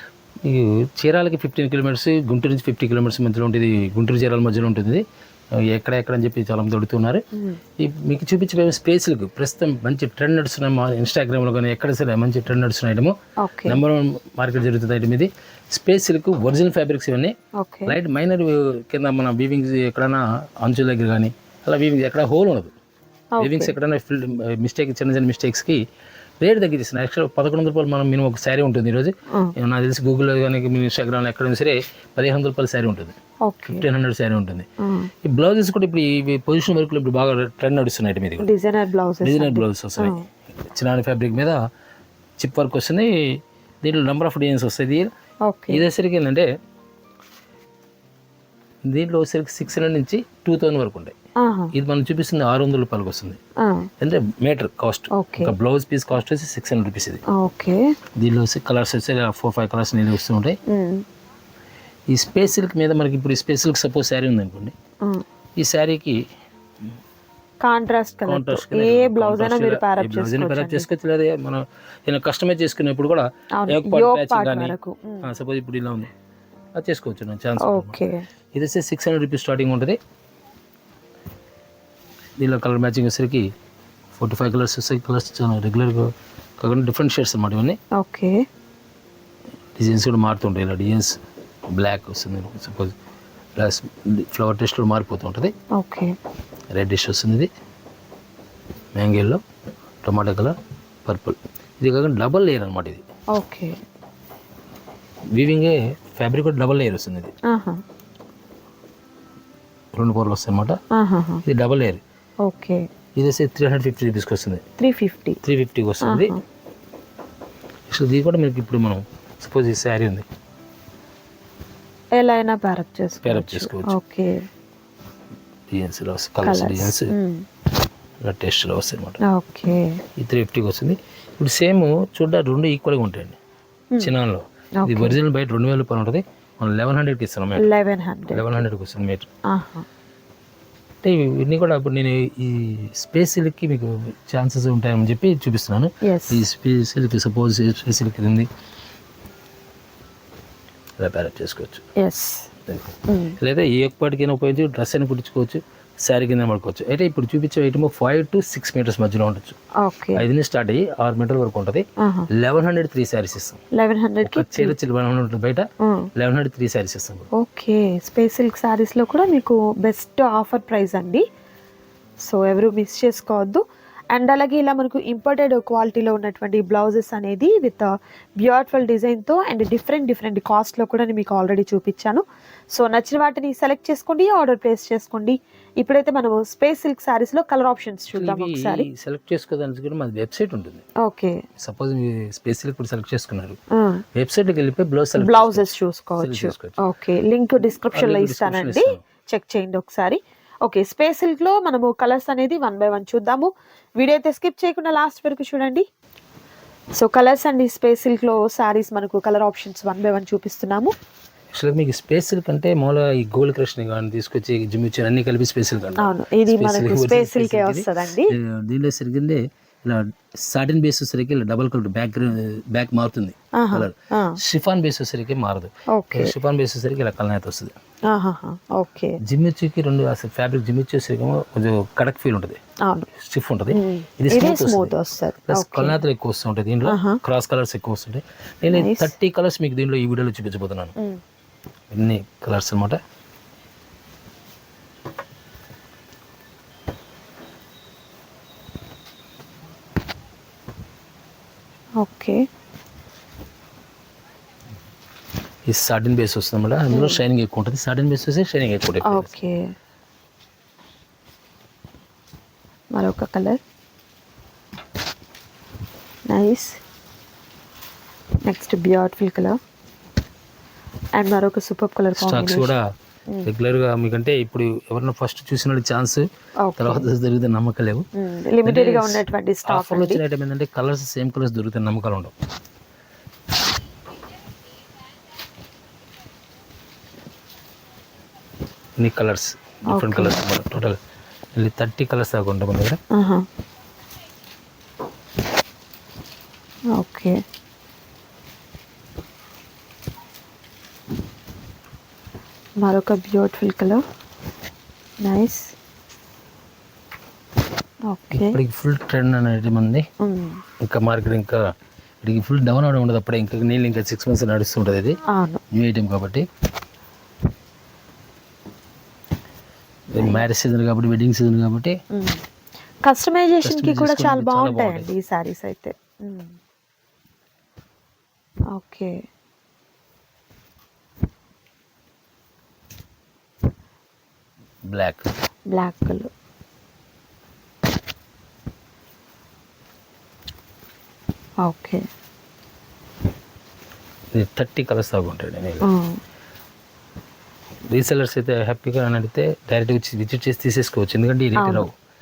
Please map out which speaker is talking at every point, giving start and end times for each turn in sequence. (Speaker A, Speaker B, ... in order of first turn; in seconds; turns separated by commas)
Speaker A: 0.4-5.0, Speaker A: 5.5-7.2, Speaker B: 7.3-7.6, Speaker A: 7.8-17.3, Speaker B: 13.4-13.8, Speaker B: 17.6-18.0, Speaker A: 17.9-22.7, Speaker B: 23.3-23.7, Speaker A: 23.4-25.8, Speaker A: 26.4-34.7, Speaker B: 33.5-33.8, Speaker B: 34.8-35.1, Speaker A: 35.2-38.5, Speaker B: 38.4-40.2, Speaker A: 39.2-41.6, Speaker A: 42.4-45.1, Speaker B: 45.5-45.8, Speaker A: 45.7-46.5, Speaker A: 48.8-51.1, Speaker B: 51.4-51.7, Speaker A: 51.7-53.4, Speaker B: 53.6-53.9, Speaker A: 54.0-57.2, Speaker B: 55.1-55.5, Speaker B: 57.3-57.8, Speaker A: 58.2-60.6, Speaker B: 60.7-61.0, Speaker A: 62.1-64.7, Speaker A: 65.6-66.2, Speaker B: 67.6-70.9, Speaker A: 68.2-76.1, Speaker B: 73.6-75.3, Speaker A: 76.7-78.0, Speaker B: 77.6-78.2, Speaker A: 78.5-80.0, Speaker A: 82.4-83.5, Speaker A: 84.1-87.8, Speaker B: 87.9-88.4, Speaker A: 89.7-92.9, Speaker A: 93.6-95.5, Speaker B: 95.8-96.2, Speaker A: 96.7-97.5, Speaker A: 99.0-99.4, Speaker A: 100.0-103.0, Speaker B: 103.3-103.8, Speaker A: 105.3-107.3, Speaker B: 107.5-107.8, Speaker A: 109.9-110.8, Speaker B: 110.9-111.4, Speaker A: 111.4-112.0, Speaker B: 112.4-112.8, Speaker A: 113.2-114.6, Speaker B: 114.8-115.4, Speaker A: 115.4-116.4, Speaker B: 116.0-116.4, Speaker A: 117.9-120.3, Speaker B: 122.1-124.5, Speaker A: 123.2-123.9, Speaker A: 125.7-127.1, Speaker B: 126.4-127.5, Speaker A: 128.2-129.2, Speaker B: 129.2-130.0, Speaker A: 130.2-133.4, Speaker A: 134.0-137.7, Speaker B: 134.8-135.2, Speaker B: 137.6-138.6, Speaker A: 138.3-139.3, Speaker B: 139.5-139.8, Speaker A: 141.0-148.5, Speaker B: 146.0-146.4, Speaker A: 151.0-151.9, Speaker B: 152.0-152.5, Speaker A: 152.7-159.6, Speaker B: 153.1-153.4, Speaker B: 159.8-160.2, Speaker A: 160.1-163.6, Speaker B: 162.0-162.3, Speaker B: 163.7-164.7, Speaker A: 164.2-165.7, Speaker B: 165.8-166.1, Speaker A: 166.2-167.3, Speaker B: 167.3-171.2, Speaker B: 172.2-188.8, Speaker A: 188.1-190.8, Speaker B: 191.0-191.4, Speaker A: 191.6-193.6, Speaker B: 193.7-194.0, Speaker A: 194.1-196.8, Speaker B: 195.2-205.8, Speaker A: 197.8-199.0, Speaker B: 207.0-210.9, Speaker A: 211.5-227.8, Speaker B: 216.0-218.3, Speaker B: 223.6-224.4, Speaker B: 225.9-226.3, Speaker B: 228.1-229.2, Speaker A: 229.2-232.6, Speaker B: 232.8-233.1, Speaker A: 233.2-234.9, Speaker B: 233.7-236.0, Speaker A: 235.4-240.9, Speaker B: 236.8-237.2, Speaker B: 238.7-239.1, Speaker A: 241.9-243.0, Speaker B: 252.0-252.4, Speaker A: 255.7-259.3, Speaker B: 256.9-257.2, Speaker B: 259.0-259.7, Speaker B: 262.9-263.6, Speaker B: 266.3-266.8, Speaker B: 268.5-269.5, Speaker B: 271.1-272.7, Speaker A: 272.1-272.8, Speaker A: 273.4-276.2, Speaker B: 276.6-277.1, Speaker A: 276.8-278.0, Speaker B: 278.1-280.2, Speaker A: 278.6-282.3, Speaker A: 289.0-291.0, Speaker B: 289.9-290.4, Speaker A: 291.5-293.0, Speaker B: 293.1-293.4, Speaker B: 296.9-297.4, Speaker B: 302.8-304.0, Speaker B: 305.2-305.7, Speaker B: 308.1-308.6, Speaker A: 308.3-310.1, Speaker B: 310.2-310.6, Speaker A: 310.8-311.7, Speaker A: 312.2-315.2, Speaker B: 315.3-315.6, Speaker A: 315.7-316.5, Speaker A: 320.1-322.0, Speaker B: 320.2-320.4, Speaker B: 322.1-322.4, Speaker B: 323.0-326.6, Speaker A: 323.6-325.1, Speaker B: 328.7-329.2, Speaker A: 334.9-335.3, Speaker B: 335.7-336.3, Speaker B: 341.6-342.0, Speaker A: 344.3-345.9, Speaker B: 345.8-346.2, Speaker A: 347.9-351.9, Speaker B: 351.6-351.9